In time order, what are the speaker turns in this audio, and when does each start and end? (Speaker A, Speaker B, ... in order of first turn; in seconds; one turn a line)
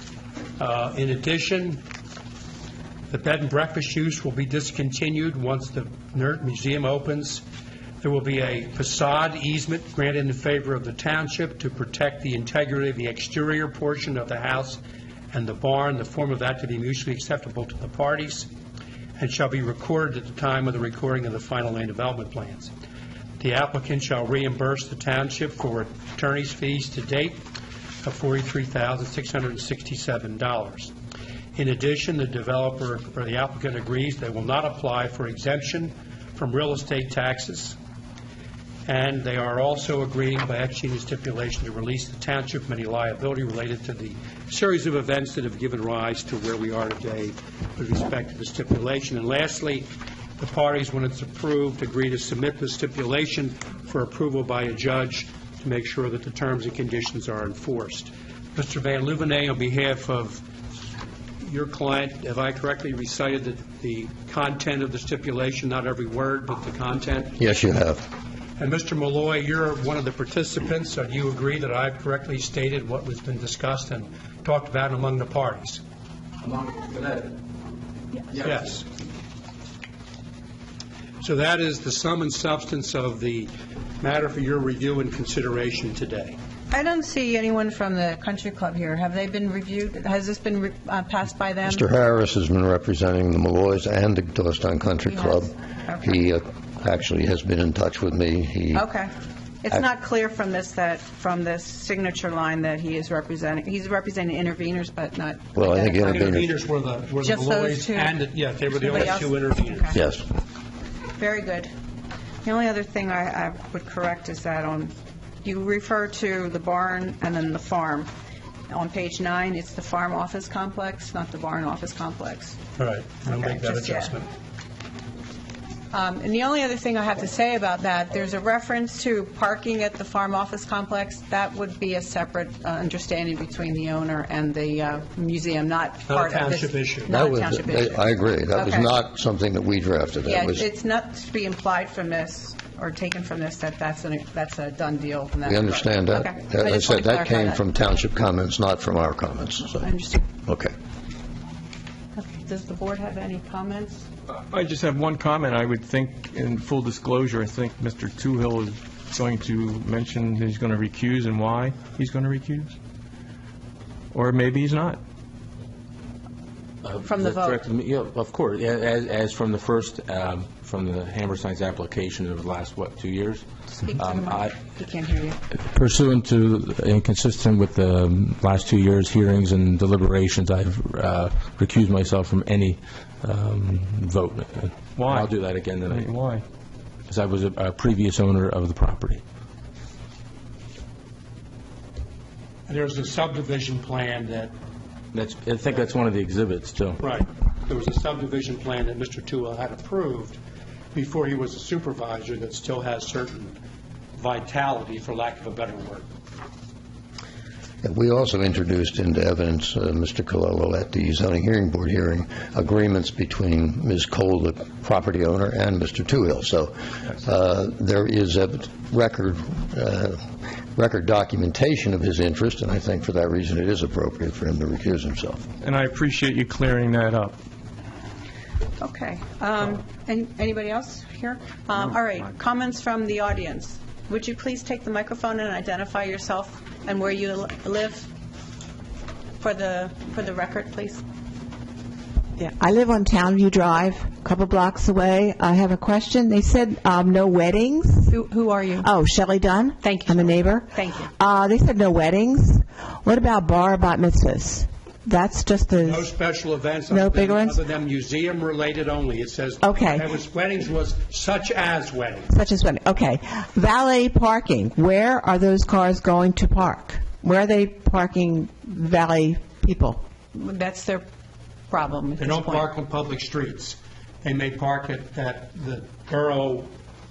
Speaker A: 0.6-1.8
Speaker A: 3.1-7.4
Speaker A: 8.0-14.8
Speaker A: 15.3-18.5
Speaker A: 19.2-22.7
Speaker A: 23.4-27.4
Speaker A: 28.0-30.9
Speaker A: 31.6-37.8
Speaker A: 38.9-60.4
Speaker A: 61.4-67.4
Speaker B: 67.4-68.1
Speaker A: 68.6-75.8
Speaker C: 76.4-77.3
Speaker C: 78.3-78.7
Speaker A: 78.4-78.8
Speaker A: 81.2-86.4
Speaker D: 86.7-91.8
Speaker B: 91.6-98.9
Speaker D: 95.0-96.2
Speaker D: 98.7-106.4
Speaker B: 105.5-106.5
Speaker A: 106.0-110.0
Speaker D: 107.2-110.0
Speaker B: 109.9-110.2
Speaker D: 111.2-111.7
Speaker D: 112.4-114.9
Speaker D: 115.4-118.1
Speaker D: 118.7-122.6
Speaker A: 122.8-124.3
Speaker D: 123.2-124.1
Speaker D: 125.9-138.9
Speaker A: 136.1-137.1
Speaker B: 137.1-140.7
Speaker D: 140.2-147.6
Speaker B: 145.4-149.9
Speaker D: 149.8-150.2
Speaker B: 150.4-150.7
Speaker D: 152.2-154.1
Speaker E: 154.5-162.7
Speaker E: 164.1-165.0
Speaker C: 166.8-174.6
Speaker D: 167.0-167.6
Speaker D: 173.7-175.4
Speaker C: 175.6-186.1
Speaker E: 184.9-185.3
Speaker E: 185.8-186.4
Speaker C: 187.1-189.2
Speaker A: 192.7-194.5
Speaker C: 195.1-197.0
Speaker A: 197.0-200.4
Speaker A: 200.9-203.6
Speaker A: 204.2-206.1
Speaker B: 207.8-225.4
Speaker E: 225.6-227.3
Speaker D: 228.8-238.1
Speaker D: 239.4-241.0
Speaker F: 242.4-248.2
Speaker D: 248.1-248.9
Speaker F: 248.8-256.4
Speaker D: 249.8-251.1
Speaker A: 255.8-262.3
Speaker F: 256.9-257.6
Speaker F: 259.6-260.1
Speaker F: 262.3-270.0
Speaker D: 270.3-271.1
Speaker D: 271.7-272.7
Speaker A: 272.2-276.7